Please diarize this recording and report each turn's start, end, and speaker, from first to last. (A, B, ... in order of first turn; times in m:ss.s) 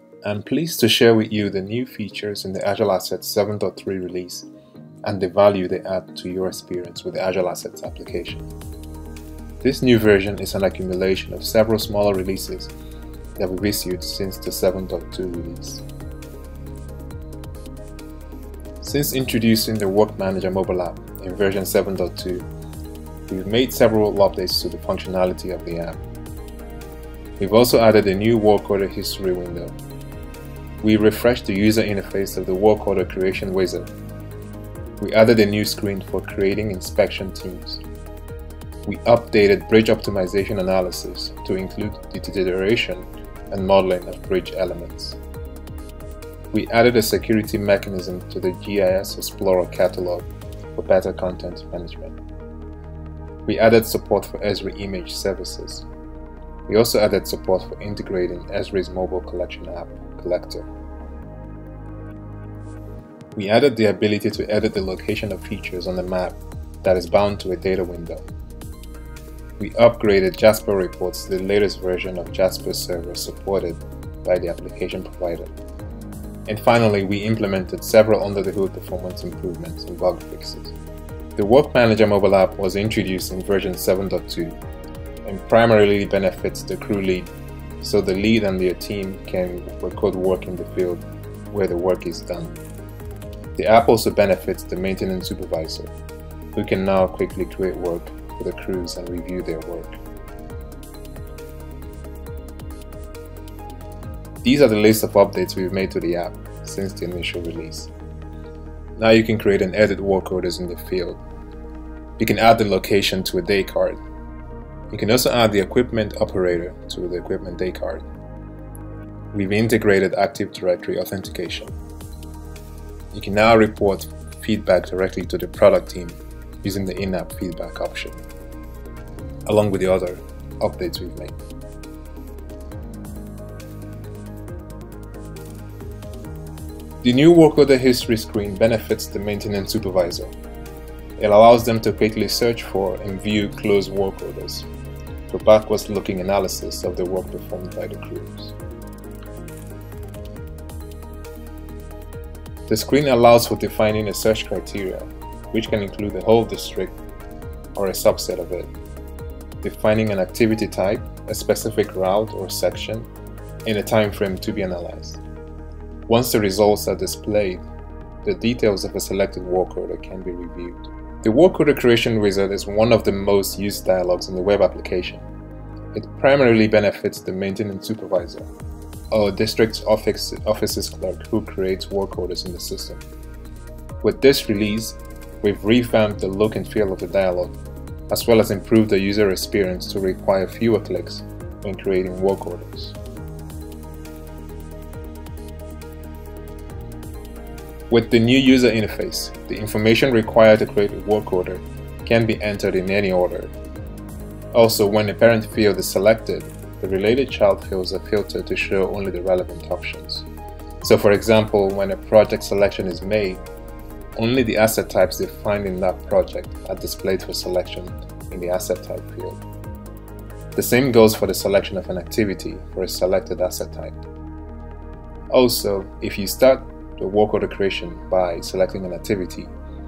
0:00.2-0:04.5 A
0:05.0-0:08.5 A
0:09.6-0:12.7 A
0:13.4-0:15.8 A
0:18.8-0:22.4 A
0:23.3-0:26.0 A
0:27.4-0:29.7 A
0:30.8-0:33.9 A
0:35.0-0:37.8 A
0:38.8-0:45.2 A
0:46.5-0:52.1 A
0:53.4-0:55.8 A
0:56.7-1:00.7 A
1:03.3-1:08.2 A
1:09.6-1:15.5 A
1:16.5-1:20.8 A
1:21.4-1:24.6 A
1:25.2-1:27.3 A
1:27.8-1:32.6 A
1:33.6-1:35.9 A
1:36.6-1:40.0 A
1:44.4-1:47.9 A
1:49.0-1:51.2 A
1:52.2-1:54.0 A
1:54.9-1:58.0 A
1:59.3-2:01.7 A
2:03.1-2:08.2 A
2:09.5-2:11.4 A
2:17.0-2:20.3 A
2:21.2-2:24.7 A
2:25.3-2:28.6 A
2:32.7-2:37.0 A
2:37.8-2:38.7 A
2:39.6-2:43.1 A
2:43.7-2:45.2 A
2:46.1-2:47.6 A
2:48.2-2:55.2 A
2:55.9-2:58.5 A
2:59.1-3:03.0 A
3:04.0-3:07.6 A
3:08.1-3:13.0 A
3:17.9-3:23.5 A
3:24.5-3:30.3 A
3:30.8-3:33.4 A
3:34.2-3:39.4 A
3:40.6-3:44.0 A
3:45.3-3:49.5 A